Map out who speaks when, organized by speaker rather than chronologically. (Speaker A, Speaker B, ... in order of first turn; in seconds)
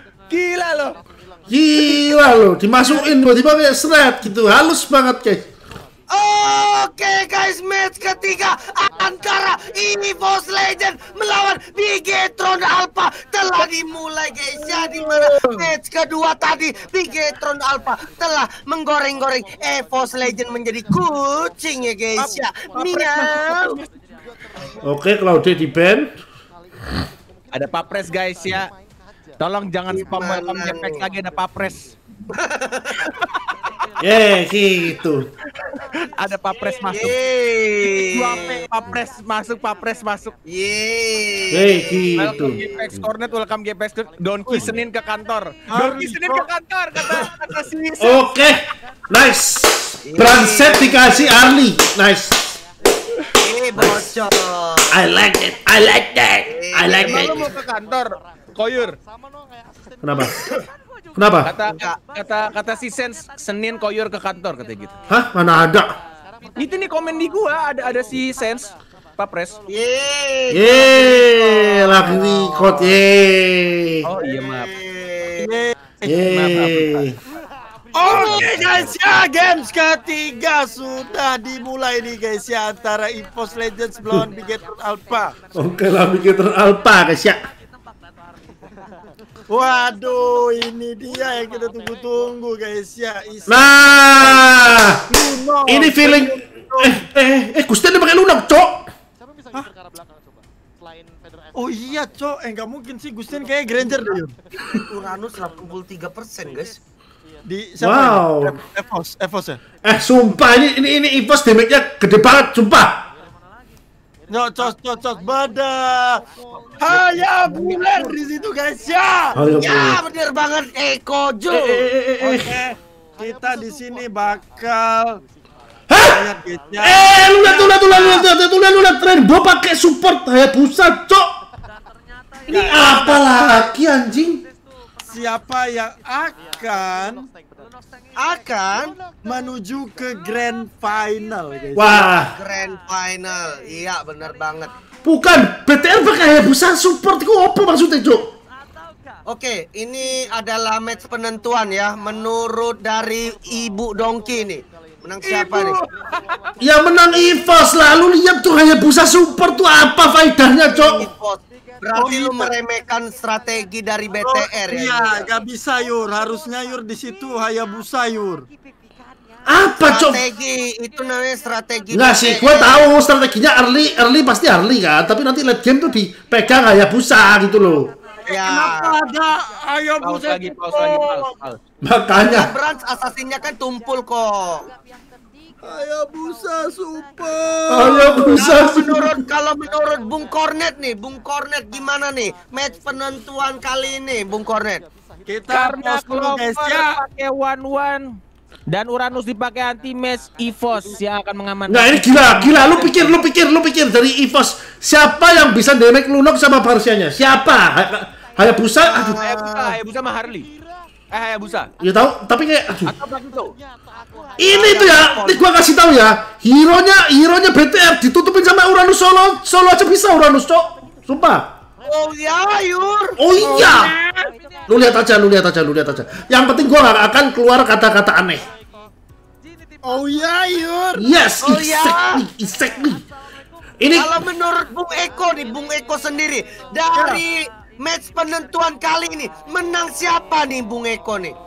Speaker A: 0.3-1.0, 22.2-23.9, 27.5-28.7, 29.4-32.0, 35.6-37.1, 37.8-40.3, 42.1-48.3, 57.0-59.0, 61.4-65.0, 66.5-69.6, 74.0-74.7, 76.1-77.0, 155.2-156.5, 180.0-181.6, 195.5-203.2, 209.0-210.5, 211.1-211.7, 212.8-213.6
Speaker B: 1.5-5.5, 24.8-26.1, 34.0-35.3, 41.5-43.0, 48.0-52.6, 53.8-54.1, 54.9-57.5, 60.0-60.4, 61.1-61.5, 65.1-65.9, 70.5-74.0, 76.0-77.2, 78.1-78.8, 85.5-87.4, 93.5-95.0, 95.7-98.9, 107.8-108.5, 109.8-113.1, 119.3-120.0, 121.5-122.6, 125.9-126.2, 126.8-131.3, 132.5-134.4, 141.7-142.3, 145.0-148.3, 156.6-161.1, 169.5-170.2, 171.9-177.9, 181.8-182.5, 187.7-189.2, 201.7-209.2, 211.8-212.9, 214.4-221.5, 223.2-223.9, 224.7-228.5, 231.0-233.0, 233.8-234.2
Speaker C: 6.1-23.8, 29.9-31.0, 32.3-33.1, 36.6-38.6, 40.5-42.7, 50.0-51.4, 53.4-55.0, 56.5-57.5, 60.2-60.6, 61.6-62.0, 69.7-73.0, 74.1-75.5, 78.0-78.9, 104.7-106.8, 116.8-118.1, 119.6-121.9, 132.5-132.8, 138.2-138.9, 141.9-144.7, 149.2-155.8, 160.7-165.3, 169.7-172.9, 178.2-179.0, 182.2-184.7, 187.8-194.8, 208.8-209.8, 214.4-215.4, 221.8-223.7, 231.4-232.2, 233.9-241.3
Speaker D: 14.7-15.2, 45.7-46.4, 75.4-76.8, 77.9-85.3, 89.5-97.0, 101.5-104.3, 107.4-109.6, 114.3-116.2, 116.8-119.4, 122.2-125.2, 126.1-128.2, 132.5-133.4, 135.1-137.3, 139.2-142.1, 155.3-155.6, 161.9-162.5, 164.2-168.5, 178.2-181.3, 185.6-188.5, 195.2-197.0, 223.4-224.2, 229.8-231.1, 236.9-237.2